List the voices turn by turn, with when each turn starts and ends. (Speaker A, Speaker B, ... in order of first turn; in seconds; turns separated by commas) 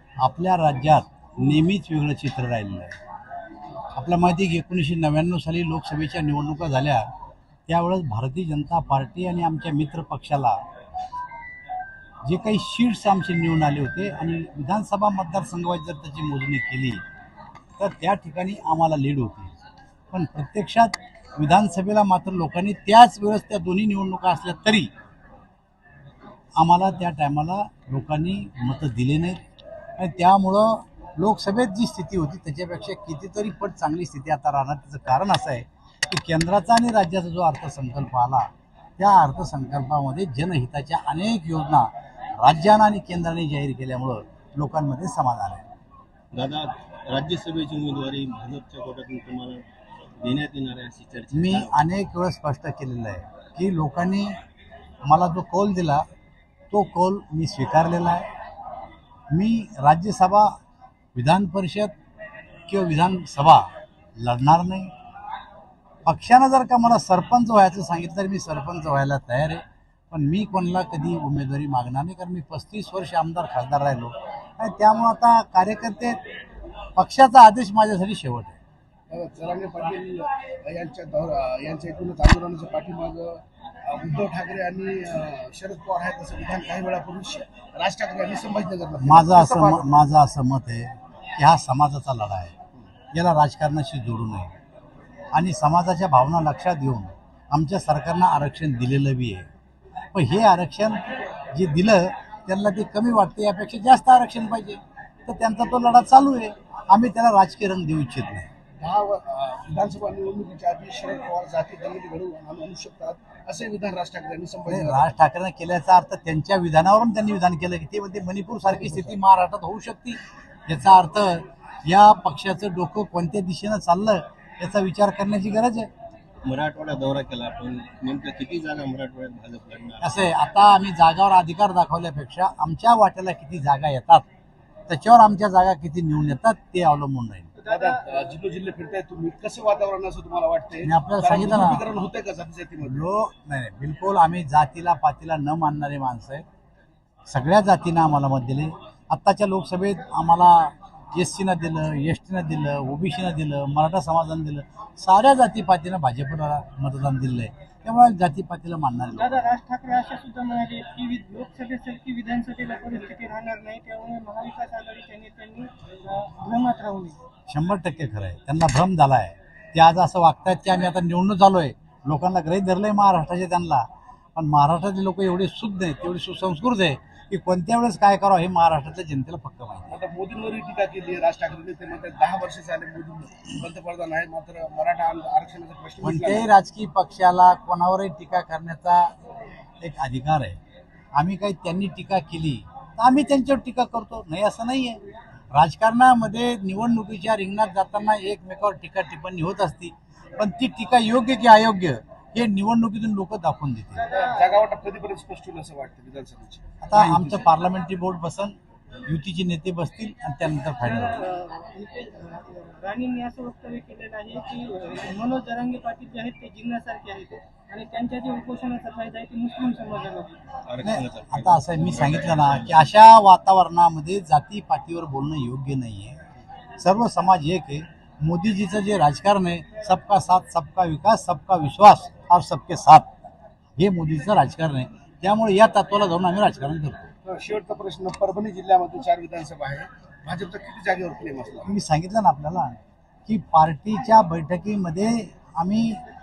Speaker A: 0.2-2.9, Speaker A: 3.9-7.1, Speaker A: 7.7-10.6, Speaker A: 12.2-17.0, Speaker A: 17.8-19.5, Speaker A: 20.1-24.9, Speaker A: 26.6-29.4, Speaker A: 30.0-45.6, Speaker B: 46.3-49.6, Speaker B: 50.2-51.7, Speaker A: 51.3-54.4, Speaker A: 55.0-56.0, Speaker A: 56.7-58.3, Speaker A: 59.3-60.5, Speaker A: 61.1-61.9, Speaker A: 62.7-64.9, Speaker A: 66.0-76.2, Speaker A: 77.0-78.6, Speaker C: 79.1-89.9, Speaker A: 89.0-92.5, Speaker A: 93.1-94.5, Speaker A: 95.3-99.5, Speaker A: 100.1-108.5, Speaker C: 108.8-115.2, Speaker A: 114.7-125.9, Speaker C: 118.7-119.2, Speaker B: 126.4-130.2, Speaker A: 130.0-134.2, Speaker A: 134.9-137.5, Speaker D: 137.6-138.1, Speaker C: 137.7-143.1, Speaker A: 140.8-141.8, Speaker A: 142.8-146.4, Speaker A: 147.3-159.5, Speaker D: 159.1-167.2, Speaker A: 167.5-179.9, Speaker C: 179.9-186.5, Speaker A: 186.0-189.1, Speaker A: 189.8-190.6, Speaker A: 191.1-195.0, Speaker A: 195.5-204.0, Speaker D: 204.0-204.5, Speaker C: 204.1-207.4, Speaker A: 206.8-211.2, Speaker D: 210.8-220.4, Speaker B: 220.7-222.9, Speaker A: 220.8-226.2, Speaker A: 226.8-233.1, Speaker A: 233.8-237.1, Speaker C: 237.2-241.7, Speaker A: 241.7-246.0